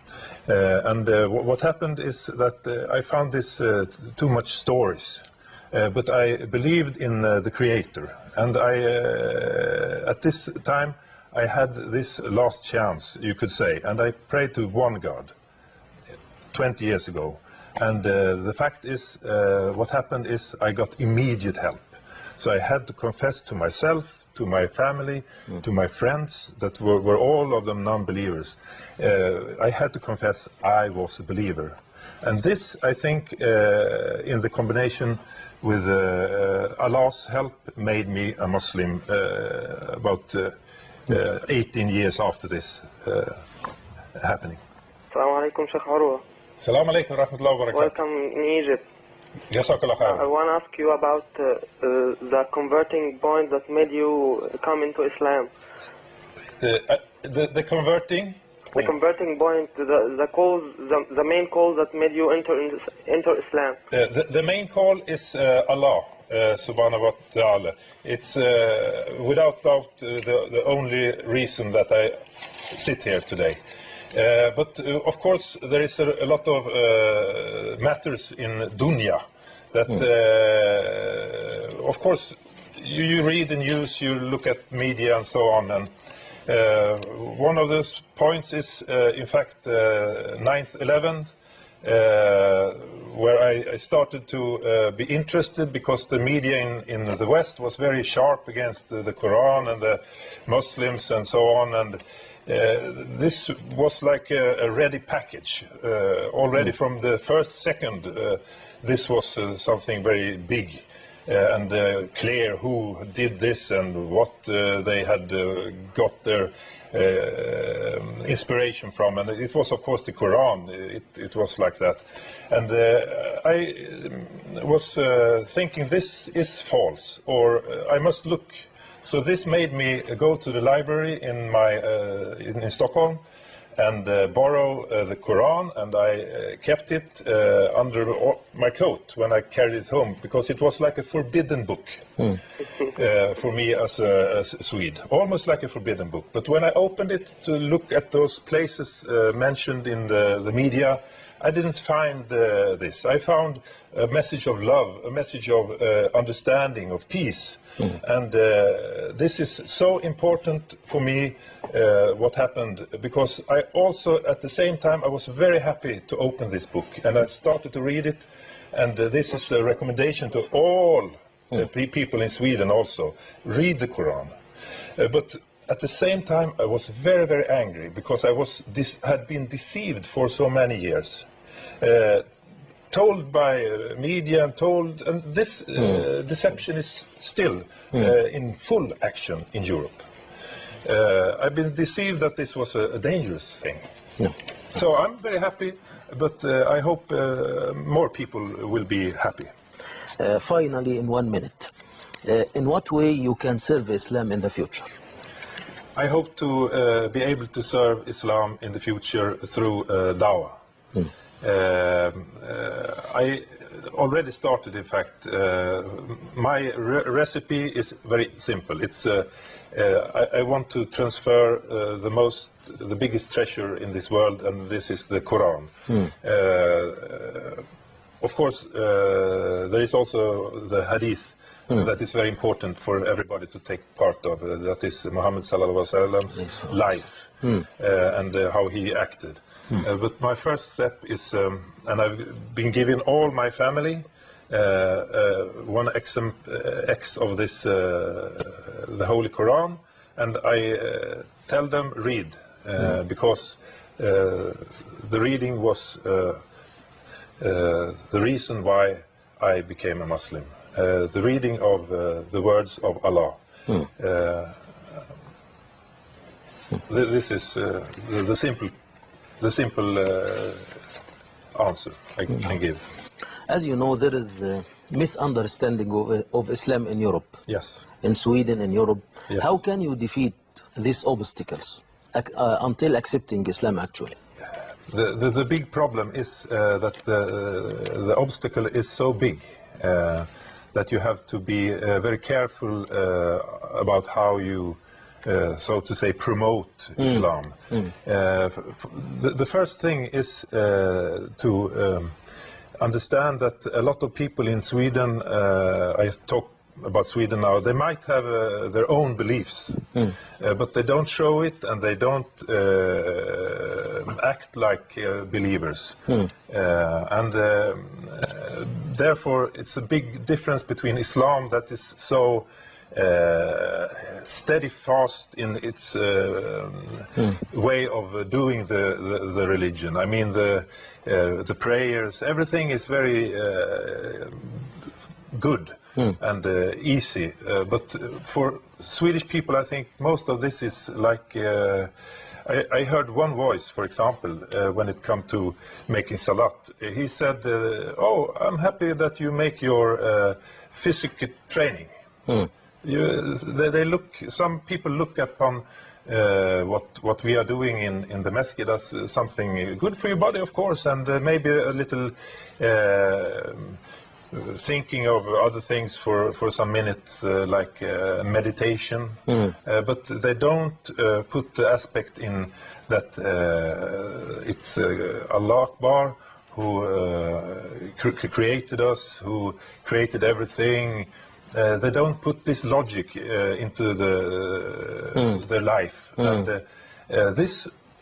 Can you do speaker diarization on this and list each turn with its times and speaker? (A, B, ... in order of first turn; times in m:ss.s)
0:00.4-0:15.3 A
0:16.5-0:40.5 A
0:41.1-0:43.4 A
0:44.2-0:44.6 A
0:45.1-0:46.2 B
0:46.6-0:48.0 A
0:47.7-0:48.8 B
0:49.5-0:50.3 A
0:50.0-0:55.5 B
0:56.6-0:58.4 A
0:58.7-1:03.8 B
1:03.9-1:13.6 A
1:14.1-1:19.2 A
1:19.7-1:25.9 A
1:26.4-1:31.3 A
1:31.8-2:13.2 A
2:13.8-2:22.3 A
2:22.9-2:54.3 A
2:55.0-3:01.3 A
3:01.8-3:02.2 A
3:02.9-3:10.0 A
3:10.8-3:13.8 A
3:14.7-3:19.5 A
3:20.2-3:21.7 C
3:22.2-3:24.9 C
3:25.9-3:30.6 A
3:31.4-3:47.6 A
3:48.2-4:16.4 A
4:17.4-4:24.6 A
4:26.8-4:28.7 A
4:29.4-4:30.7 A
4:31.5-4:32.8 A
4:33.5-4:37.4 C
4:37.5-4:37.8 A
4:38.0-4:44.2 C
4:44.9-5:02.1 A
5:02.8-5:34.6 A
5:35.3-5:41.9 A
5:42.4-6:03.8 A
6:04.3-6:27.7 A